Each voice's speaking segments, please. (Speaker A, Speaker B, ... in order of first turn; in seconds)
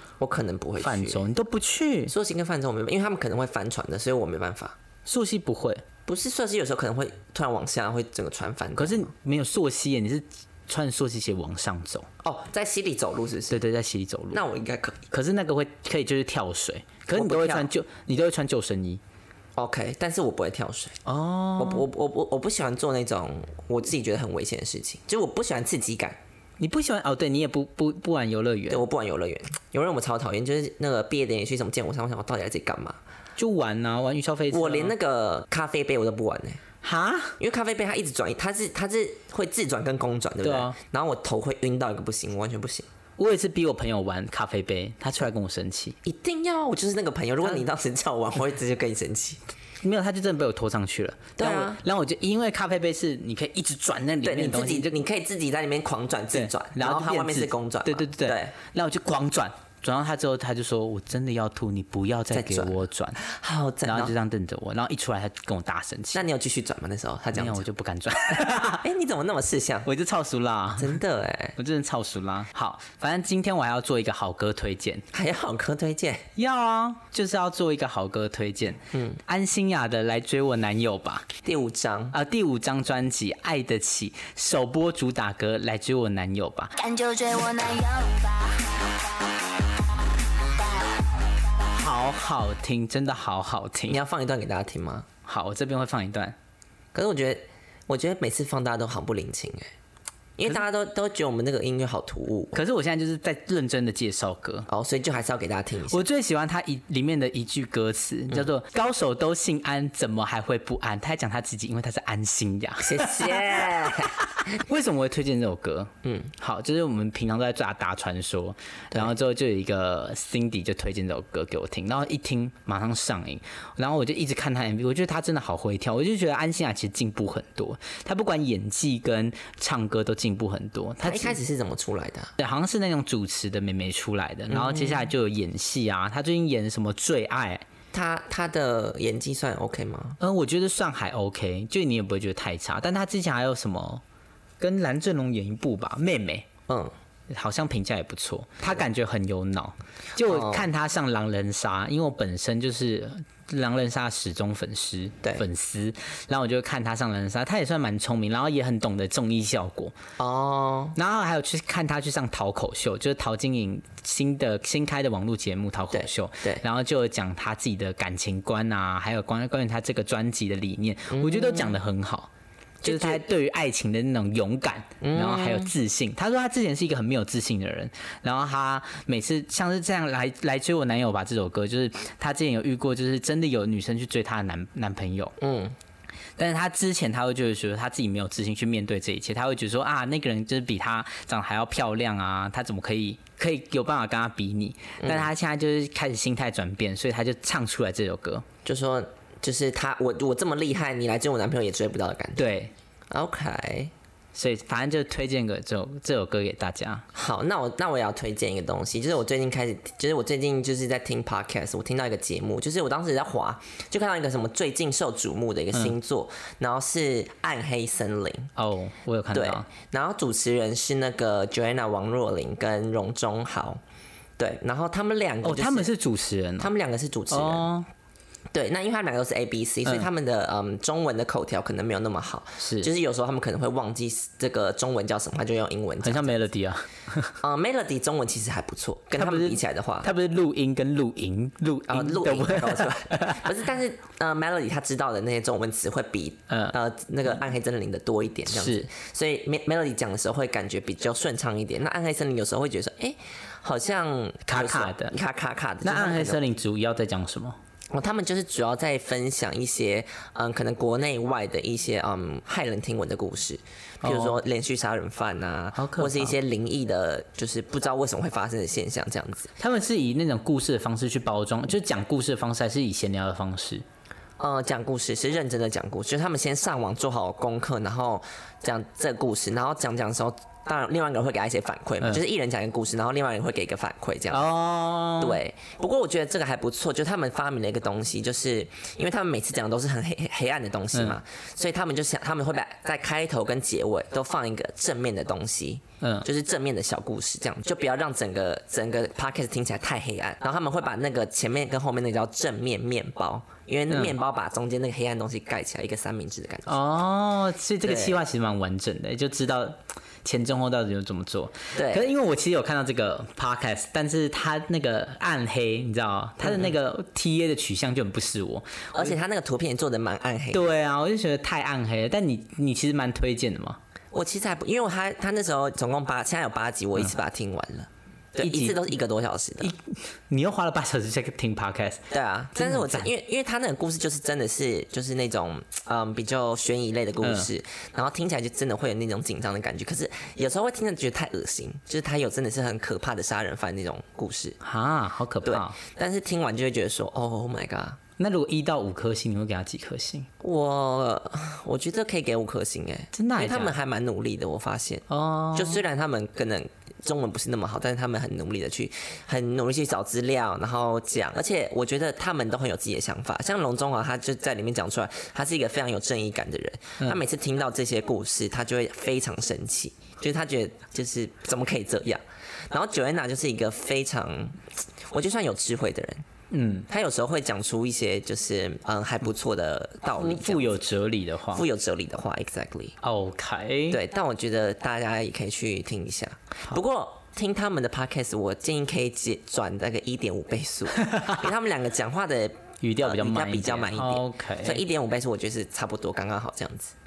Speaker A: 0.2-1.2, 2.1-4.8, 6.1-9.1, 12.2-13.6, 14.3-15.1, 17.1-17.7, 19.6-21.0, 21.6-26.2, 28.7-33.0, 34.5-36.6, 37.4-42.9, 46.0-49.4, 51.4-51.8, 54.2-58.5, 62.3-64.1, 66.1-67.6, 68.6-69.9, 70.8-71.6, 75.1-76.3, 78.9-79.2, 81.4-82.2, 93.9-95.0, 96.9-99.7, 100.4-102.5, 104.7-106.0, 112.8-114.2, 116.0-116.3, 131.0-132.3, 134.5-135.1, 137.9-140.2, 146.7-146.9, 150.2-150.7, 160.2-160.9, 165.9-166.6, 171.1-171.8, 172.8-173.2, 175.0-175.7, 185.4-185.7, 195.0-195.3, 198.6-202.4, 203.1-203.9, 207.1-218.5, 219.3-223.8, 224.4-225.9, 226.6-227.7, 228.5-236.4, 237.4-240.1, 241.9-256.4, 257.9-269.5, 274.4-284.4, 285.2-306.8, 307.8-308.2, 311.7-312.1, 316.4-316.7, 318.9-320.7, 324.1-329.7, 332.1-344.6, 345.4-348.0, 350.4-376.2, 376.9-380.8, 381.5-382.9, 383.9-396.9
Speaker B: 0.8-2.1, 5.0-5.8, 8.8-12.1, 13.5-14.4, 15.1-19.0, 21.0-21.9, 26.6-28.8, 33.4-34.9, 36.8-37.4, 40.4-40.8, 43.2-46.0, 49.8-55.0, 56.3-63.2, 63.8-66.2, 67.3-68.8, 69.8-71.0, 71.6-75.0, 76.3-81.2, 82.1-86.8, 91.7-94.0, 95.2-96.3, 102.5-104.7, 105.9-131.4, 132.4-137.6, 140.2-144.0, 144.6-146.5, 147.3-159.9, 160.9-172.3, 172.8-185.3, 186.4-198.4, 202.4-202.7, 204.3-207.0, 218.6-219.7, 225.4-226.7, 227.3-227.9, 232.6-232.9, 236.0-237.3, 239.1-243.6, 246.5-246.7, 248.5-248.9, 254.5-255.1, 255.8-257.6, 264.0-264.4, 265.7-266.4, 269.6-273.8, 284.3-285.4, 296.0-296.2, 303.9-304.1, 306.7-319.1, 320.5-323.8, 328.4-328.8, 329.6-333.1, 337.2-337.5, 344.6-345.8, 348.2-350.3, 353.1-353.8, 355.1-355.8, 376.5-376.9, 380.2-381.6, 383.0-384.0, 391.0-391.4, 392.8-394.8
Speaker C: 86.8-89.8, 90.3-91.7